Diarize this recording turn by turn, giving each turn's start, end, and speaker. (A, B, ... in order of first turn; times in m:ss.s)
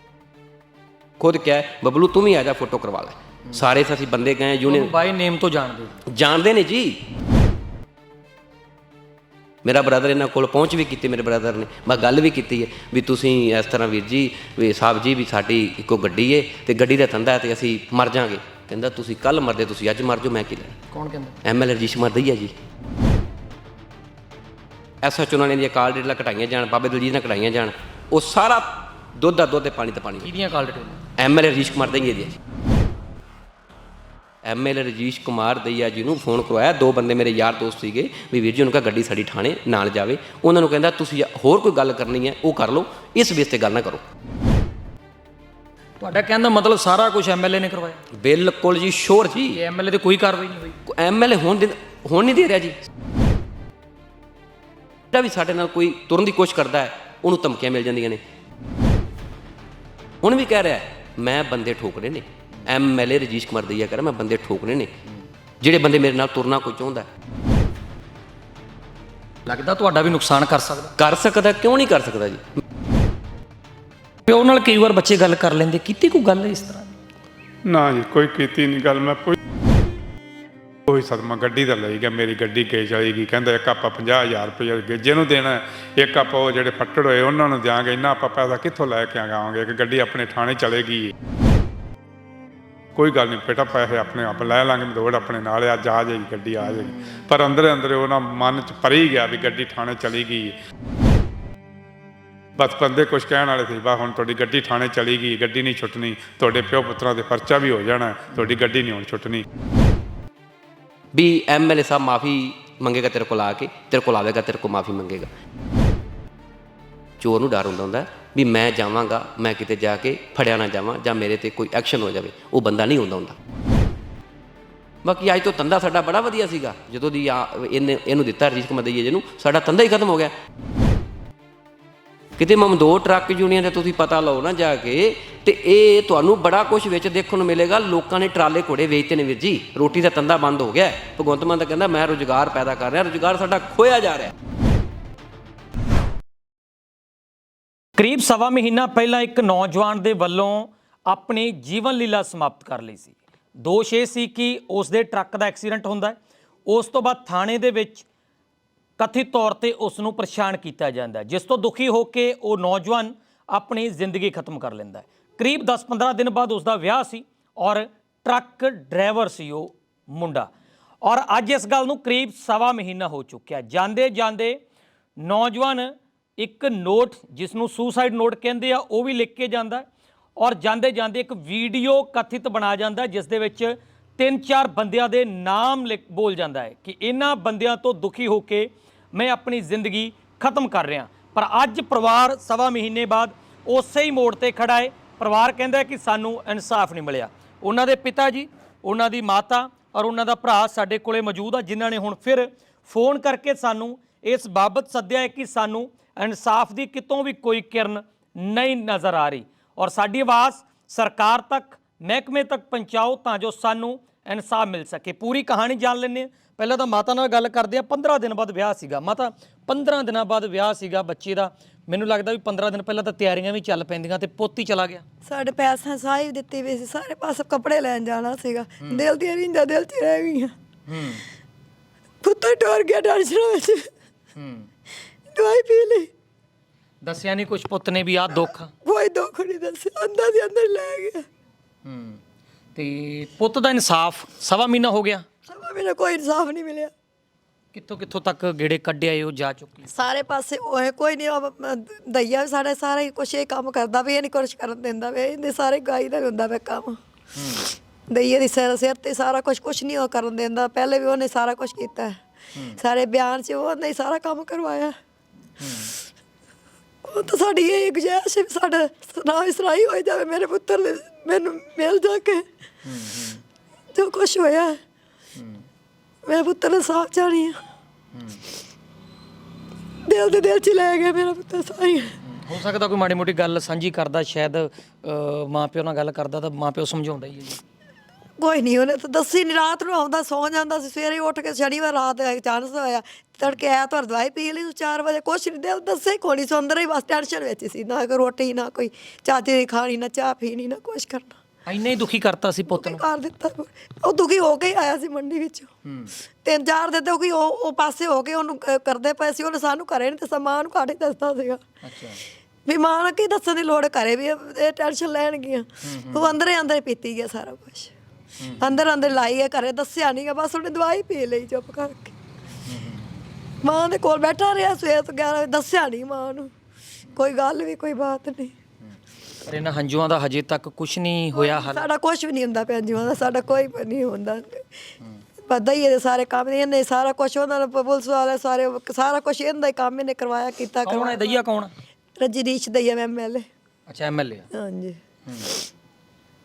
0:01.2-0:04.9 A
0:04.7-0:06.0 B
0:06.1-0:07.0 A
0:09.6-0:20.8 A
0:20.9-0:21.4 B
0:21.4-0:22.5 A
0:25.0-0:30.3 A
0:30.2-0:31.0 B
0:31.2-0:32.4 A
0:34.4-0:44.0 A
0:46.0-0:48.0 B
0:48.1-0:49.6 A
0:49.5-0:50.8 B
0:50.8-0:52.8 A
0:55.1-0:58.2 A
1:00.2-1:04.9 A
1:05.6-1:07.1 A
1:09.4-1:10.9 B
1:11.0-1:12.5 A
1:14.3-1:17.0 B
1:17.6-1:19.4 C
1:20.8-1:31.1 C
1:32.9-1:40.6 C
1:42.6-1:49.4 C
1:51.1-1:55.3 A
1:57.2-2:03.4 A
2:05.0-2:10.3 A
2:12.4-2:24.3 A
2:28.0-2:38.0 B
2:39.0-2:50.5 B
2:51.0-2:54.6 B
2:55.2-3:45.0 B
3:45.2-3:50.5 D
3:50.9-3:51.2 B
3:52.2-3:53.9 D
3:54.3-3:54.7 B
3:55.3-3:56.1 D
3:57.0-3:58.7 B
3:58.8-4:01.2 D
4:01.8-4:02.2 B
4:02.7-4:05.2 B
4:05.5-4:06.9 D
4:07.7-4:09.9 B
4:09.9-4:17.0 D
4:17.3-4:17.7 B
4:18.1-4:22.2 D
4:22.7-4:24.9 D
4:25.6-4:25.9 B
4:27.0-4:32.5 D
4:32.8-4:33.4 B
4:33.9-4:34.8 D
4:35.4-4:35.6 B
4:36.2-4:37.6 D
4:38.1-4:38.4 B
4:40.0-4:42.2 D
4:42.2-4:47.6 B
4:48.4-5:01.4 D
5:01.6-5:03.0 B
5:02.7-5:05.7 D
5:05.8-5:06.1 B
5:06.4-5:11.6 D
5:11.8-5:12.2 B
5:12.6-5:17.9 D
5:15.8-5:16.3 B
5:18.4-5:18.6 B
5:18.6-5:22.1 D
5:22.7-5:23.1 B
5:23.6-5:26.5 D
5:27.2-5:28.5 D
5:29.4-5:31.8 B
5:31.3-5:34.6 D
5:35.4-5:41.4 D
5:40.8-5:41.7 B
5:42.2-5:43.5 D
5:43.9-5:44.5 B
5:44.5-5:45.0 D